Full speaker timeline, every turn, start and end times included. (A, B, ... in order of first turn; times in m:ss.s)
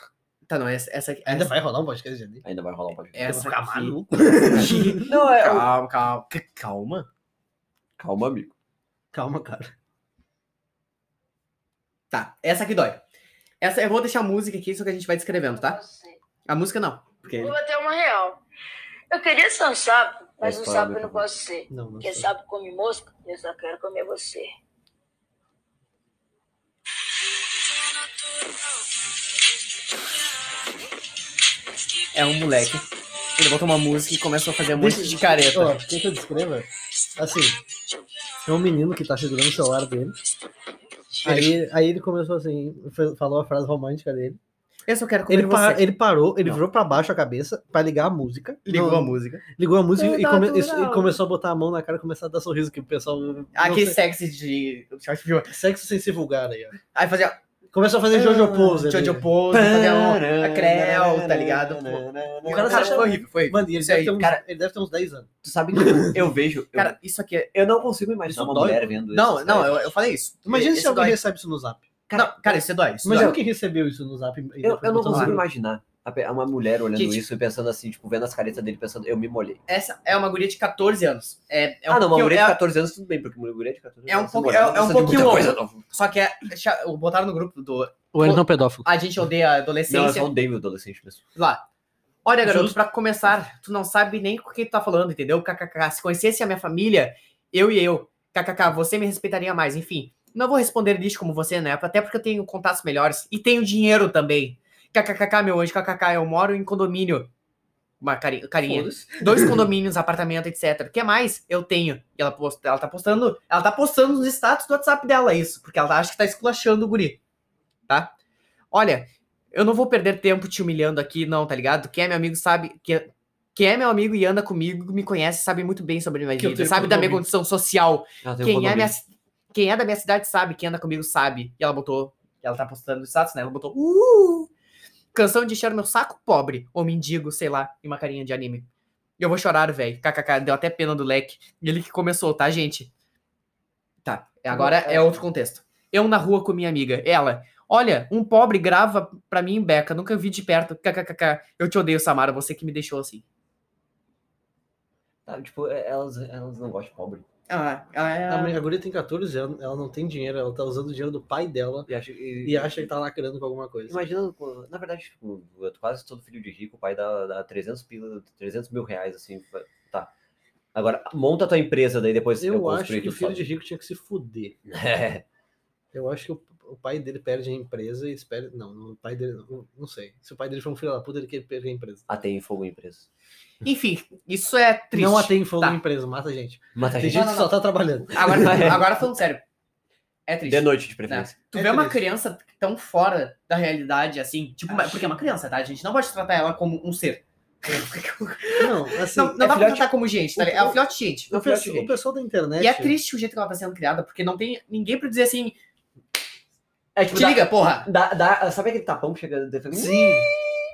0:00.5-0:01.6 A
0:01.3-0:02.4 B
0:02.4-0:03.5 C
0:03.2-0:07.1 A
0:03.3-0:05.1 B
0:04.9-0:05.7 C
0:08.0-0:08.5 C
0:09.1-0:09.7 B
0:12.1-0:13.0 A
0:13.6-0:15.8 A
0:15.6-0:16.2 D
0:16.5-0:17.6 A
0:17.4-0:18.4 D
0:19.1-0:24.5 D
0:20.4-0:21.3 C
0:21.7-0:22.3 B
0:32.1-0:35.8 A
0:34.8-0:37.6 B
0:38.5-0:40.2 B
0:41.1-0:41.6 A
0:41.2-0:44.4 B
0:44.9-0:45.9 A
0:45.3-0:54.0 B
0:48.7-0:49.4 A
0:50.0-0:51.2 A
0:53.6-0:55.5 A
0:55.5-0:56.8 B
0:56.9-0:57.4 A
0:57.7-0:59.3 B
0:58.2-1:02.0 A
0:59.5-1:03.1 C
1:02.4-1:06.3 B
1:02.6-1:04.2 A
1:05.4-1:07.0 C
1:06.8-1:07.5 A
1:07.5-1:09.9 C
1:08.3-1:08.9 B
1:09.1-1:11.2 A
1:10.5-1:11.9 B
1:12.1-1:13.4 C
1:12.2-1:13.4 A
1:13.0-1:15.4 B
1:14.6-1:19.6 C
1:15.1-1:15.4 A
1:17.0-1:17.2 A
1:19.7-1:22.6 A
1:21.9-1:25.8 C
1:24.1-1:30.3 A
1:25.1-1:25.4 B
1:28.1-1:28.9 B
1:29.9-1:31.2 C
1:31.4-1:31.6 A
1:32.2-1:47.3 A
1:32.4-1:32.8 B
1:48.0-1:57.2 A
1:48.7-1:49.5 C
1:57.9-1:58.1 A
1:58.7-2:14.5 A
2:06.4-2:07.2 B
2:08.2-2:09.0 C
2:15.1-2:18.7 A
2:19.2-2:22.9 A
2:24.0-2:33.2 A
2:24.5-2:25.1 C
2:35.3-2:37.2 C
2:37.5-2:38.6 A
2:38.3-2:41.9 B
2:41.9-2:42.8 C
2:42.4-2:44.0 B
2:43.9-2:50.1 C
2:50.8-2:53.5 C
2:52.4-2:54.6 B
2:54.7-2:55.2 C
2:55.9-3:02.1 B
3:02.1-3:03.1 C
3:03.6-3:05.8 A
3:04.9-3:08.8 B
3:06.8-3:07.4 C
3:07.0-3:07.6 A
3:08.1-3:09.4 A
3:08.3-3:08.8 C
3:10.3-3:21.3 A
3:10.5-3:11.3 C
3:11.5-3:12.0 B
3:14.7-3:15.1 B
3:18.6-3:19.6 B
3:19.4-3:19.9 C
3:20.4-3:20.8 B
3:21.3-3:23.0 B
3:21.3-3:21.9 C
3:22.6-3:25.6 A
3:27.0-3:30.1 C
3:27.1-3:27.9 A
3:29.7-3:30.3 B